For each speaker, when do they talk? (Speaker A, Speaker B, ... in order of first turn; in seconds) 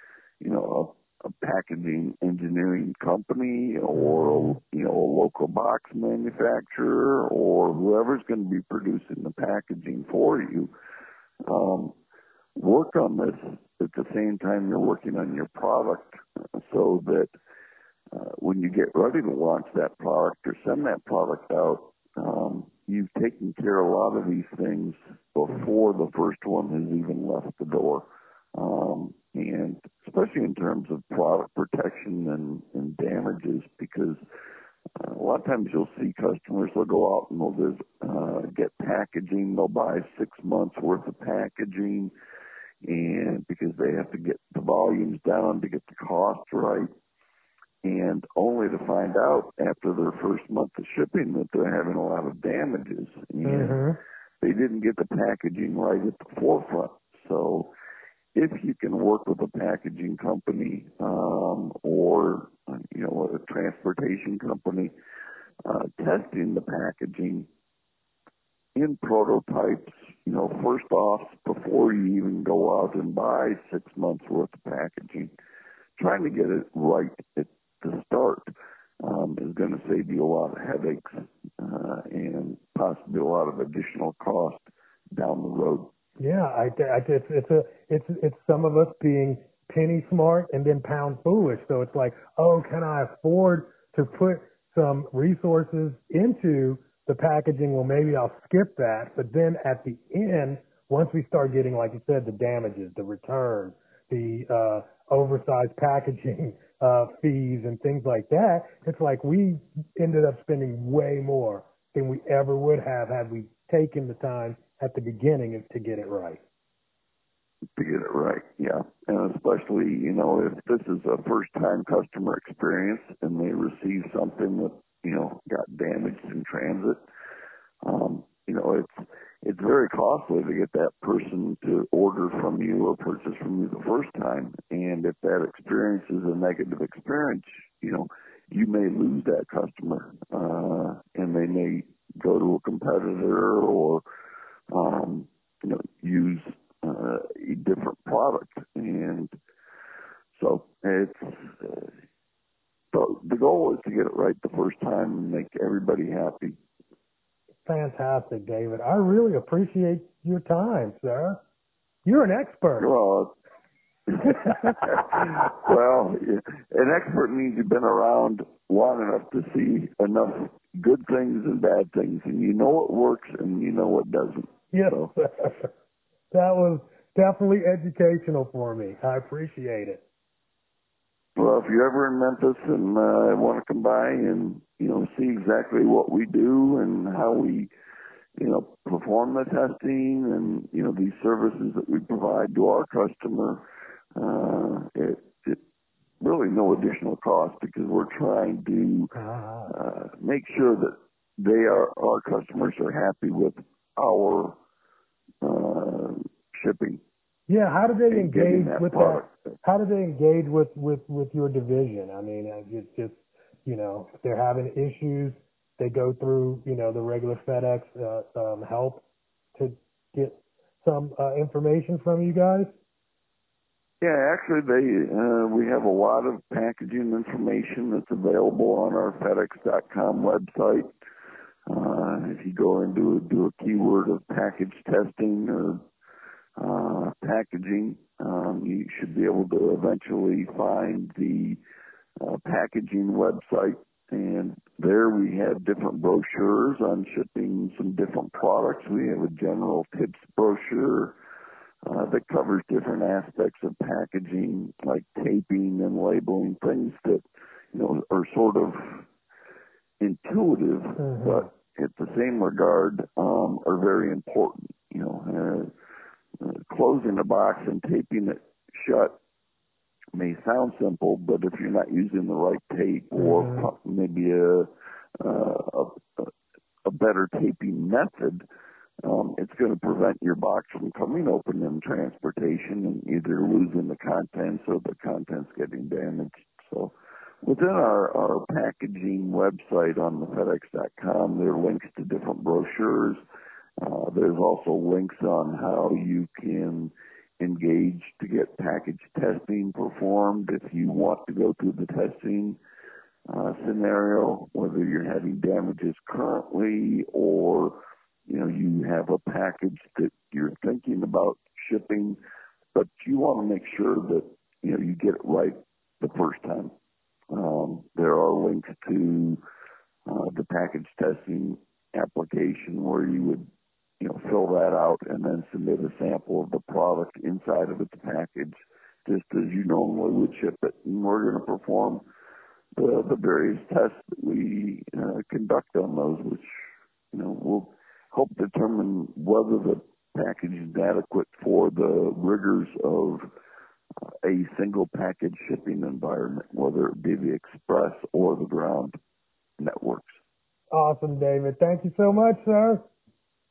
Speaker A: 0.4-10.7, 11.4-12.0, 12.6-17.3, 18.1-34.2, 35.0-42.1, 42.8-46.9, 47.8-53.8, 54.4-57.7, 58.3-64.9, 65.7-67.5, 68.8-75.3, 76.0-85.9, 117.8-127.0, 127.8-144.0, 144.7-149.3, 150.3-151.9, 152.9-156.6, 162.8-163.3, 164.1-175.1, 181.4-187.7, 188.4-193.7, 194.2-195.6, 196.2-199.1, 199.7-204.6, 205.4-207.0, 208.1-209.6, 224.0-230.9, 231.7-235.8, 236.6-241.6, 242.2-251.2, 251.8-257.2, 257.7-259.1, 260.0-265.7, 266.4-269.2, 270.1-276.3, 276.9-278.4, 279.0-293.2, 293.8-302.6, 303.3-312.2, 312.7-316.7, 317.3-319.4, 320.1-323.5, 324.0-332.1, 332.8-343.3, 344.2-349.0, 349.6-350.2
Speaker B: 4.0-4.5, 53.4-54.0, 86.2-116.4, 157.7-161.4, 162.1-162.9, 164.3-164.5, 174.7-175.7, 176.3-180.0, 199.1-199.7, 207.5-219.0, 219.6-222.7, 261.0-261.5, 273.2-273.7, 350.7-352.9